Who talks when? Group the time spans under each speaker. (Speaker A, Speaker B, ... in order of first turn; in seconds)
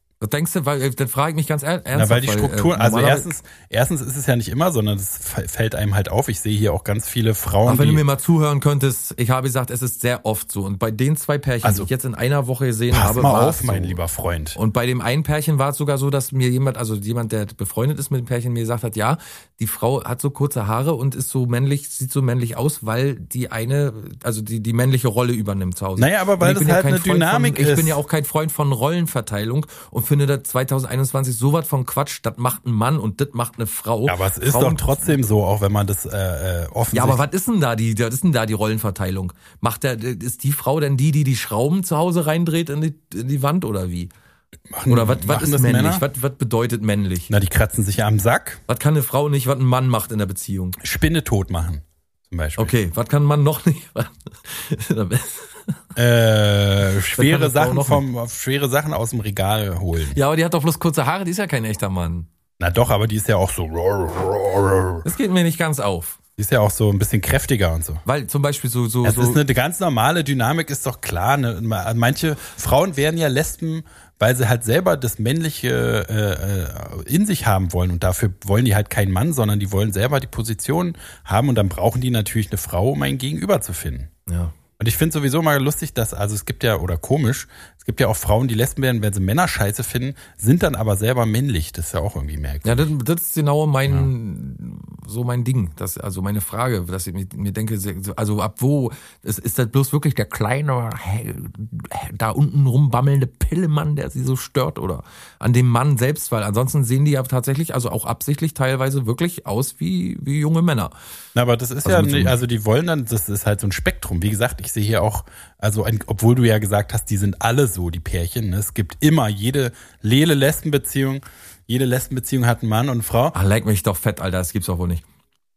Speaker A: 0.2-3.3, 7.7-14.0, 14.5-35.1, 36.9-44.1, 44.9-47.3, 48.7-50.8, 52.6-55.7, 57.1-58.0, 60.1-62.3, 65.0-66.2, 68.1-69.4, 84.3-84.5, 92.6-110.9, 111.8-112.4, 123.3-125.0
Speaker B: 1.9-8.0, 11.6-11.9, 12.9-14.6, 26.0-28.0, 34.1-37.2, 44.7-46.0, 47.3-48.6, 50.8-52.7, 56.0-60.2, 62.6-65.0, 66.4-68.0, 69.0-84.1, 84.8-92.9, 111.3-123.3